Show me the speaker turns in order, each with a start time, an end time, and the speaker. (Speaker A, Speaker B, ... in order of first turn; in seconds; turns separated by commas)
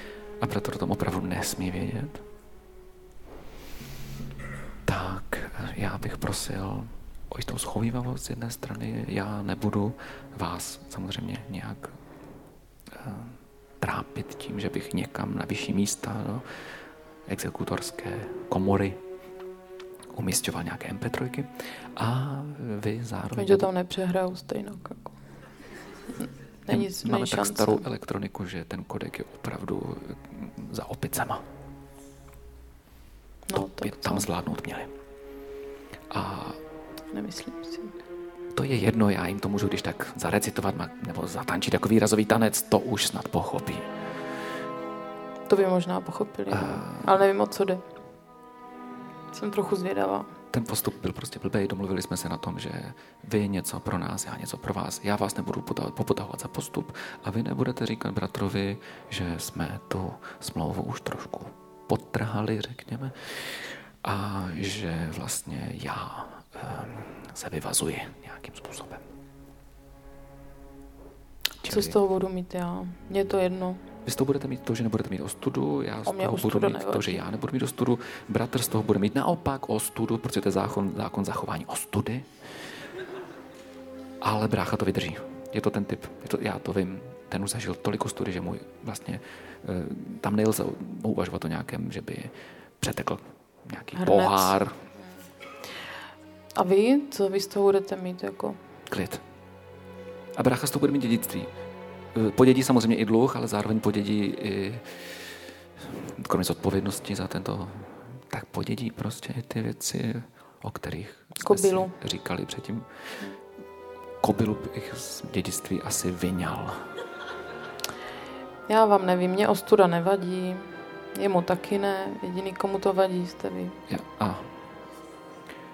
Speaker A: 0.4-2.2, Speaker A: 4.9-12.0, Speaker A: 12.9-16.5, Speaker A: 17.3-19.0, Speaker A: 20.1-23.7, Speaker B: 23.4-25.1, Speaker B: 26.7-27.9, Speaker A: 26.7-31.4, Speaker B: 33.5-34.3, Speaker A: 33.6-34.9, Speaker A: 36.1-36.6, Speaker B: 37.1-37.9, Speaker A: 38.5-43.9, Speaker B: 45.5-47.8, Speaker A: 46.5-47.0, Speaker B: 49.3-50.3, Speaker A: 50.5-69.0, Speaker A: 71.6-72.0, Speaker B: 71.7-73.8, Speaker A: 74.1-82.3, Speaker B: 76.1-77.2, Speaker A: 84.2-94.7, Speaker B: 94.0-94.5, Speaker B: 96.6-98.6, Speaker A: 98.9-99.2, Speaker A: 100.4-101.5, Speaker A: 102.2-105.2, Speaker A: 106.1-112.9, Speaker B: 111.4-111.9, Speaker A: 114.2-116.8, Speaker B: 118.7-123.8, Speaker A: 123.9-124.5